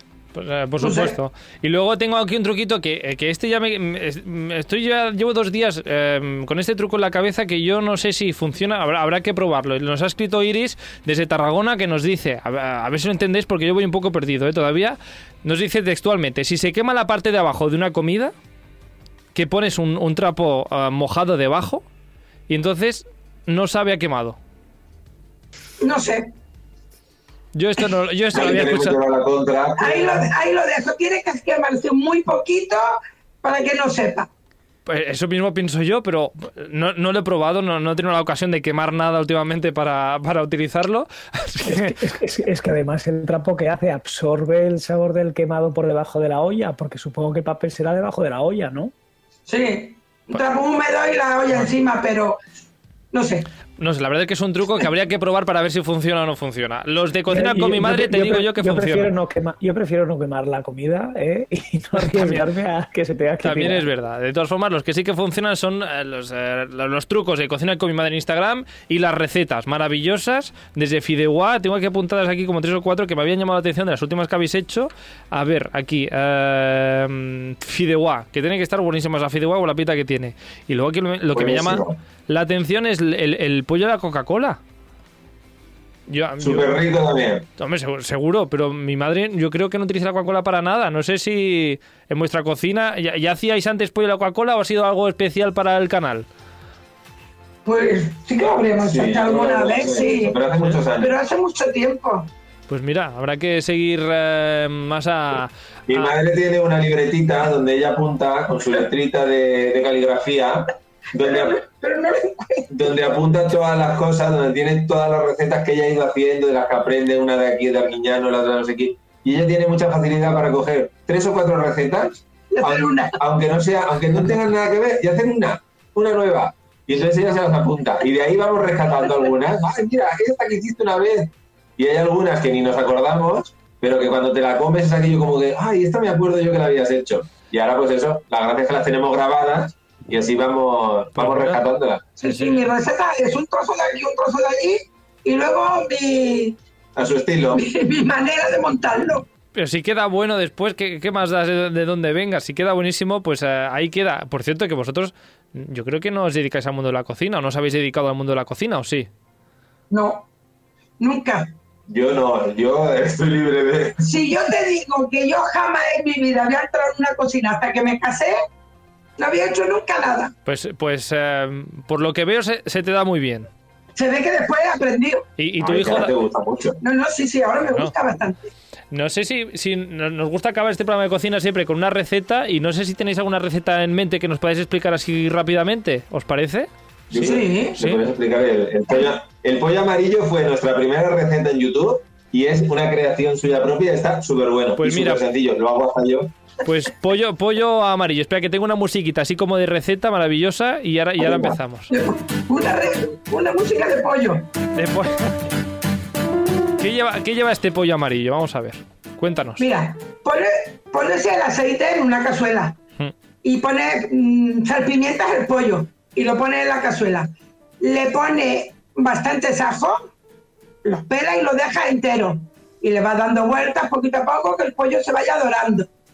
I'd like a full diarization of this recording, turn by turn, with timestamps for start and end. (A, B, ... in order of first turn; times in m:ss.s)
0:00.3-0:18.3 A
0:00.8-0:01.2 B
0:19.3-0:21.8 A
0:22.5-0:24.4 A
0:25.8-0:26.3 B
0:27.5-0:29.0 A
0:28.3-0:30.3 C
0:29.8-0:34.3 B
0:34.8-0:42.0 A
0:41.6-0:48.9 D
0:49.5-0:52.4 B
0:53.1-0:53.5 B
0:53.8-0:59.1 A
0:57.3-1:03.9 D
1:02.0-1:02.4 A
1:03.4-1:24.6 A
1:21.3-1:22.0 C
1:26.1-1:26.8 A
1:26.4-1:27.4 C
1:27.6-1:36.3 A
1:37.6-1:40.4 B
1:38.8-1:41.1 C
1:40.9-1:42.3 B
1:42.7-1:46.2 A
1:45.9-1:51.6 C
1:51.2-1:52.9 B
1:52.7-2:22.0 C
2:02.5-2:03.2 B
2:21.2-2:21.6 A
2:22.2-2:26.6 B
2:22.2-2:22.6 A
2:27.0-2:27.6 C
2:27.5-2:29.2 B
2:29.5-2:39.1 A
2:39.9-2:40.2 B
2:41.0-2:41.5 B
2:41.9-2:44.0 C
2:44.0-2:48.4 B
2:49.2-2:50.3 B
2:50.4-2:53.5 A
2:54.0-2:55.2 B
2:55.4-2:56.1 A
2:55.6-2:56.8 C
2:56.8-2:58.5 B
2:58.9-3:06.7 A
3:07.1-3:16.3 C
3:07.1-3:07.8 B
3:14.8-3:15.2 A
3:16.6-3:21.9 A
3:21.2-3:21.5 C
3:21.9-3:24.5 B
3:24.7-3:25.4 A
3:26.8-3:29.6 A
3:29.6-3:32.8 B
3:33.4-3:37.3 B
3:37.8-3:40.1 B
3:40.8-3:45.9 B